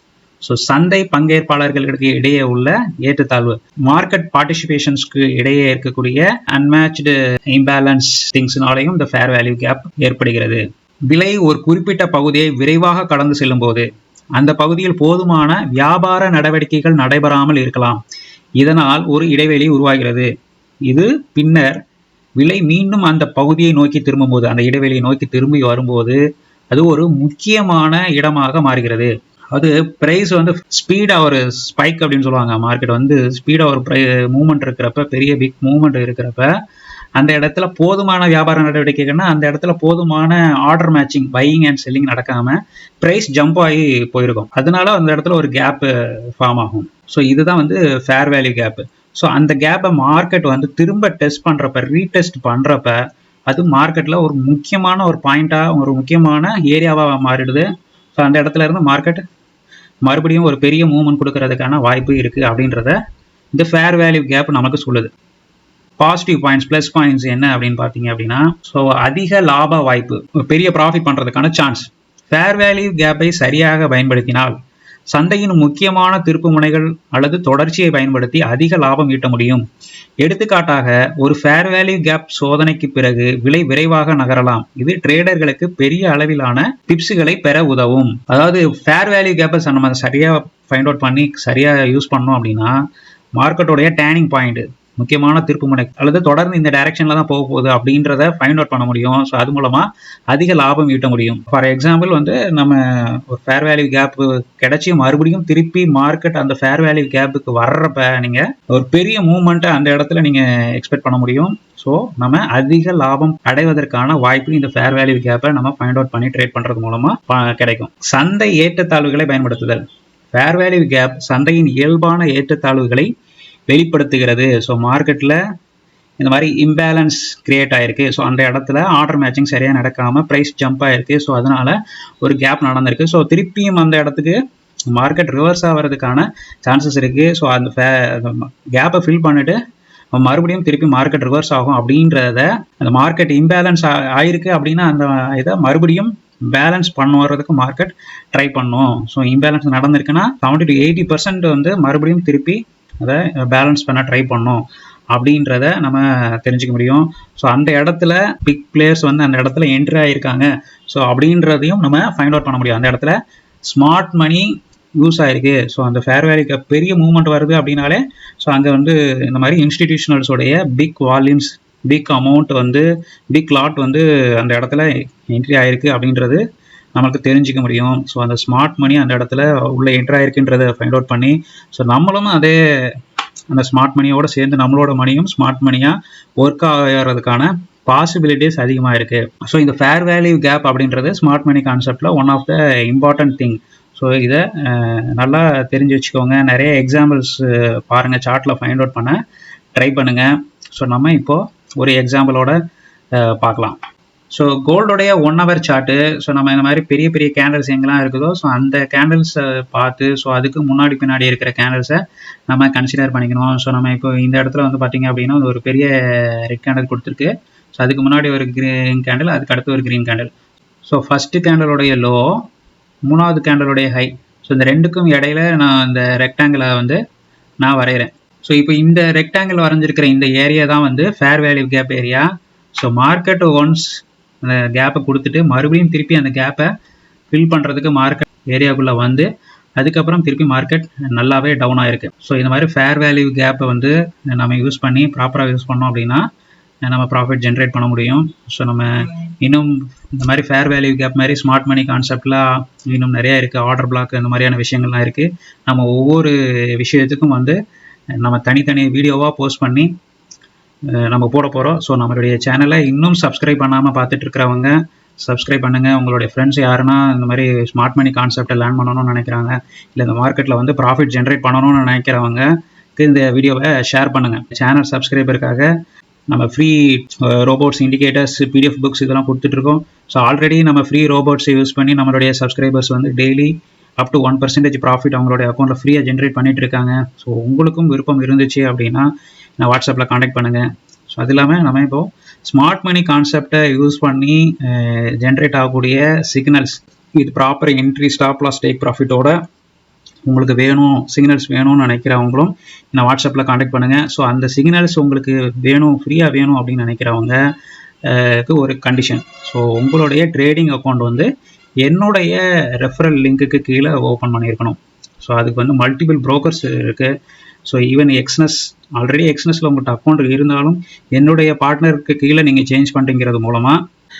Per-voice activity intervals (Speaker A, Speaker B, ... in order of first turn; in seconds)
Speaker A: 0.4-18.0, 18.6-20.3, 20.9-21.8, 22.4-26.2, 26.7-36.5, 37.1-59.2, 60.0-63.0, 63.5-65.1, 66.0-74.5, 75.1-79.6, 80.2-92.7, 93.4-119.8, 120.3-123.1, 123.7-125.4, 126.2-134.4, 134.9-139.6, 140.1-176.4, 176.9-183.0, 183.5-199.2, 199.8-202.6, 203.1-203.8, 204.3-220.3, 220.8-222.4, 223.0-227.0, 227.6-236.7, 237.3-246.2, 246.8-257.6, 258.2-259.9, 260.9-275.7, 276.3-289.1, 289.6-299.4, 300.2-307.4, 308.1-311.3, 311.8-317.1, 317.6-323.8